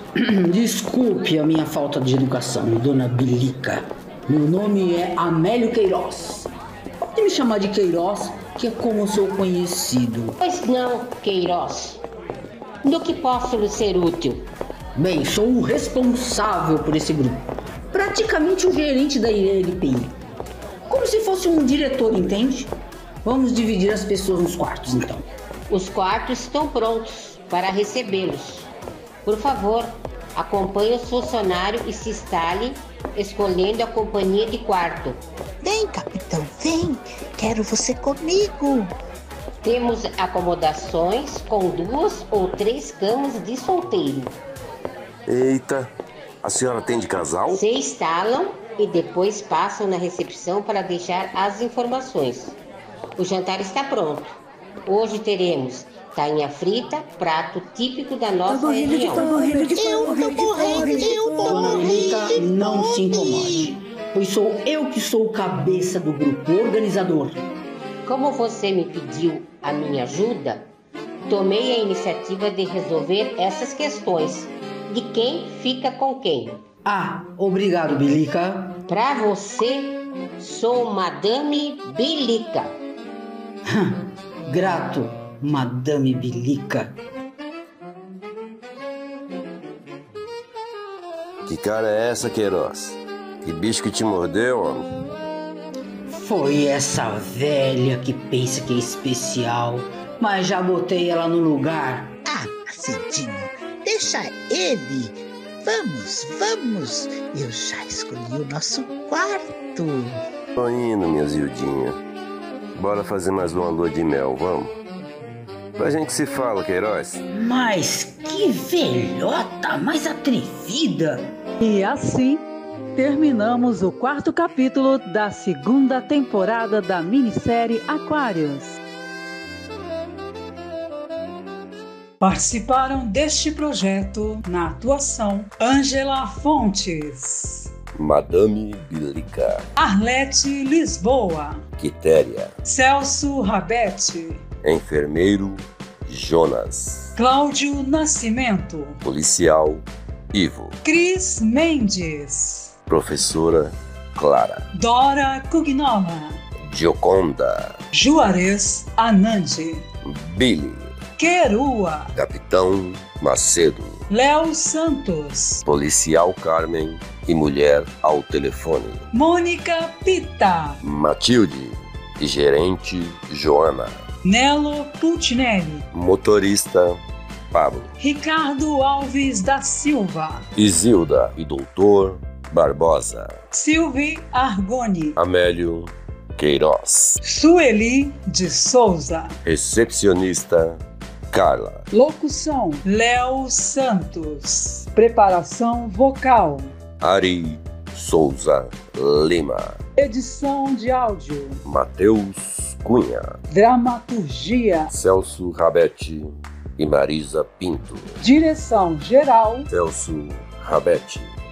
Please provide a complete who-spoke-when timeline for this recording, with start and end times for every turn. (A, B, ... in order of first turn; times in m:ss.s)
0:00.2-0:06.5 A
0:07.0-0:10.4 A
0:10.4-0:12.0 B
0:12.8-0:14.5 B
0:15.0-0:20.1 A
0:20.9-0:25.2 A
0:25.7-0:28.7 B
0:29.2-0:35.2 B
0:35.6-0:38.9 C
0:39.6-0:44.4 B
0:45.3-0:45.9 D
0:46.4-0:47.6 D
0:47.5-0:52.6 B
0:53.2-0:59.2 B
0:58.5-1:03.7 C
0:59.1-1:07.4 A
1:08.0-1:10.7 B
1:11.3-1:16.6 B
1:16.8-1:18.8 A
1:18.9-1:22.8 B
1:23.7-1:27.0 A
1:31.4-1:34.8 D
1:36.1-1:42.2 A
1:42.3-1:50.1 C
1:50.6-1:52.0 D
1:52.8-1:54.7 D
1:55.8-1:57.2 D
1:57.3-2:01.3 A
2:01.6-2:08.8 E
2:12.2-2:17.7 E
2:17.9-2:19.6 D
2:19.8-2:21.6 E
2:21.8-2:22.5 D
2:22.6-2:24.4 E
2:24.6-2:27.1 D
2:27.1-2:29.0 E
2:29.0-2:30.8 D
2:30.8-2:32.7 E
2:32.9-2:34.6 D
2:34.7-2:36.4 E
2:36.7-2:37.7 D
2:37.9-2:39.8 E
2:40.0-2:40.9 D
2:41.2-2:42.2 E
2:42.2-2:44.0 D
2:44.1-2:45.6 E
2:45.6-2:49.0 D
2:49.1-2:50.8 E
2:50.8-2:54.0 D
2:54.2-2:55.9 E
2:55.9-2:57.0 D
2:57.5-2:57.9 D
2:58.0-3:00.4 E
3:00.6-3:03.3 D
3:03.5-3:05.2 E
3:05.2-3:07.2 D
3:07.2-3:09.3 E
3:09.4-3:10.8 D
3:11.3-3:11.8 D
3:11.9-3:16.7 E
3:17.0-3:19.8 D
3:20.0-3:21.6 E
3:21.6-3:23.3 D
3:23.5-3:24.9 E
3:24.9-3:28.1 D
3:28.2-3:29.7 E
3:29.7-3:31.3 D